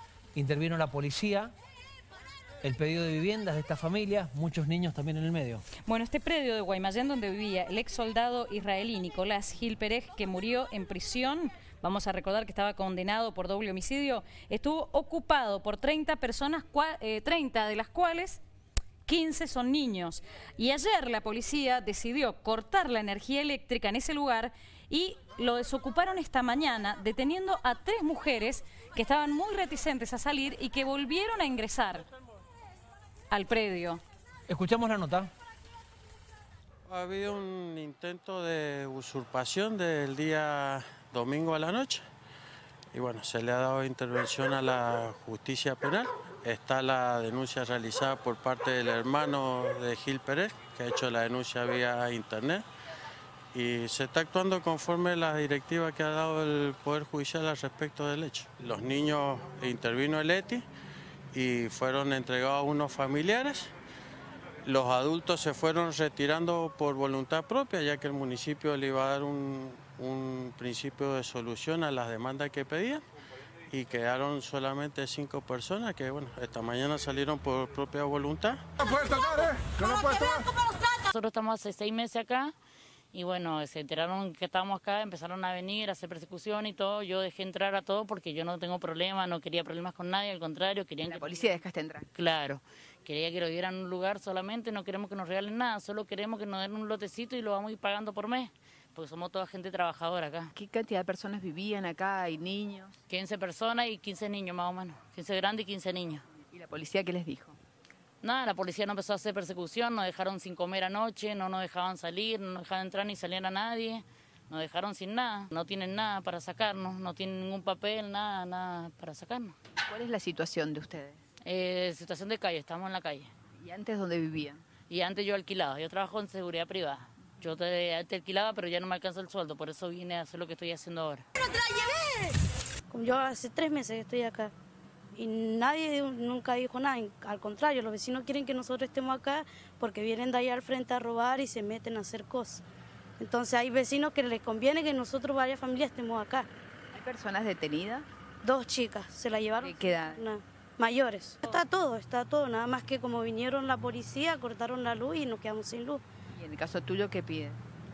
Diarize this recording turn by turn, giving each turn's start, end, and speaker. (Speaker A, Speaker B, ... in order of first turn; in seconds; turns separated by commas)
Speaker A: 0.3-1.5, Speaker A: 2.6-5.6, Speaker B: 5.8-18.4, Speaker B: 19.1-32.0, Speaker B: 33.3-34.0, Speaker A: 34.5-35.3, Speaker C: 36.9-42.0, Speaker C: 42.9-52.6, Speaker C: 53.5-60.6, Speaker C: 61.3-63.7, Speaker C: 64.7-73.0, Speaker C: 73.7-78.6, Speaker D: 79.8-82.5, Speaker D: 83.1-91.6, Speaker E: 91.0-92.1, Speaker D: 92.1-100.5, Speaker E: 100.5-103.0, Speaker D: 103.1-106.2, Speaker E: 106.5-107.6, Speaker D: 108.2-119.5, Speaker E: 119.9-121.2, Speaker D: 121.5-123.3, Speaker E: 123.6-124.6, Speaker D: 124.9-131.2, Speaker F: 132.9-134.5, Speaker F: 135.2-142.6, Speaker F: 143.2-146.5, Speaker E: 146.9-148.1, Speaker F: 148.4-156.0, Speaker E: 149.6-150.3, Speaker E: 156.3-157.6